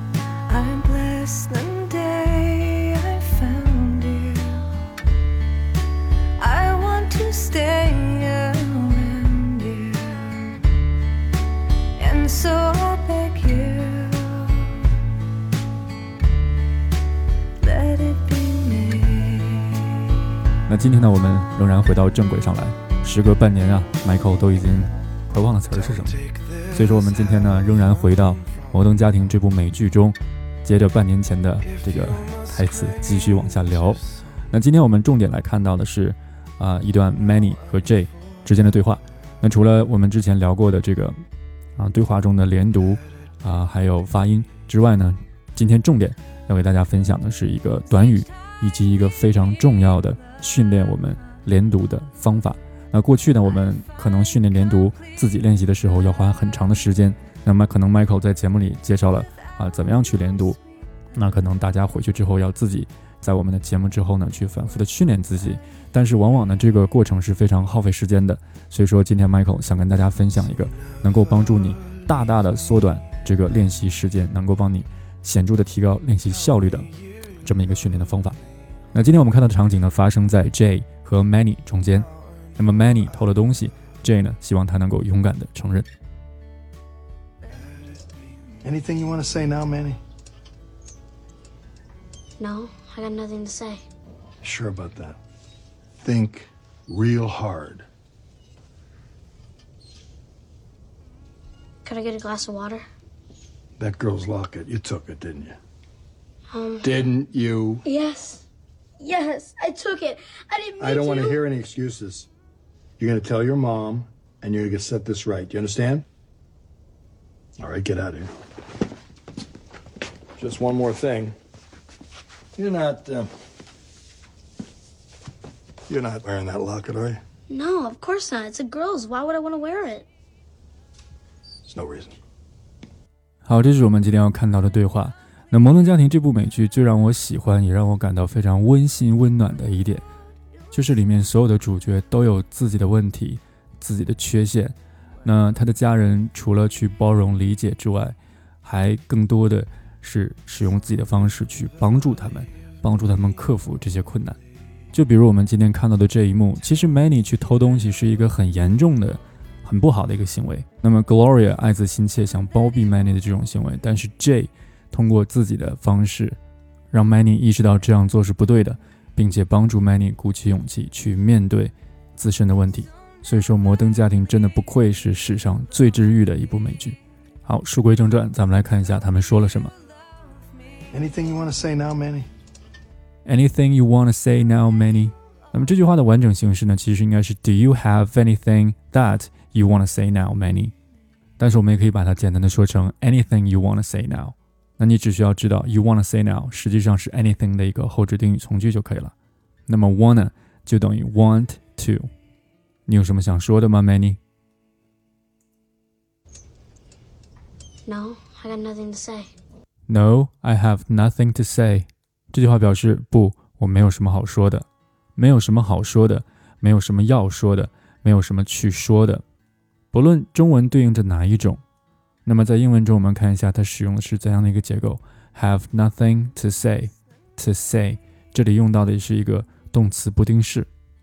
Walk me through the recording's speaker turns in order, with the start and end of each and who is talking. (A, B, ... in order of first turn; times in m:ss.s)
0:00.5-0:04.8 A
0:06.4-0:10.8 A
0:11.9-0:14.9 A
0:17.6-0:20.3 A
0:20.6-0:41.2 B
0:41.8-1:00.6 B
1:01.1-1:18.4 B
1:18.9-1:25.9 B
1:28.6-1:30.0 C
1:32.4-1:33.8 D
1:34.4-1:35.2 C
1:36.0-1:37.8 C
1:41.8-1:42.8 D
1:43.8-1:45.6 C
1:46.5-1:46.9 D
1:46.8-1:47.8 C
1:47.8-1:48.4 D
1:49.0-1:51.4 D
1:50.8-1:52.3 C
1:53.0-1:56.0 C
1:57.6-1:58.3 C
2:00.4-2:01.3 C
2:02.6-2:03.3 C
2:05.9-2:07.2 C
2:07.5-2:10.1 D
2:11.7-2:12.2 C
2:13.4-2:20.0 B
2:20.7-2:34.4 B
2:34.9-2:46.4 B
2:46.9-2:59.7 B
3:00.9-3:02.3 C
3:03.2-3:10.7 B
3:11.4-3:19.1 B
3:19.7-3:22.1 B
3:22.8-3:24.2 B
3:27.9-3:29.3 D
3:29.9-3:39.2 B
3:39.9-3:41.6 B
3:42.2-3:50.7 B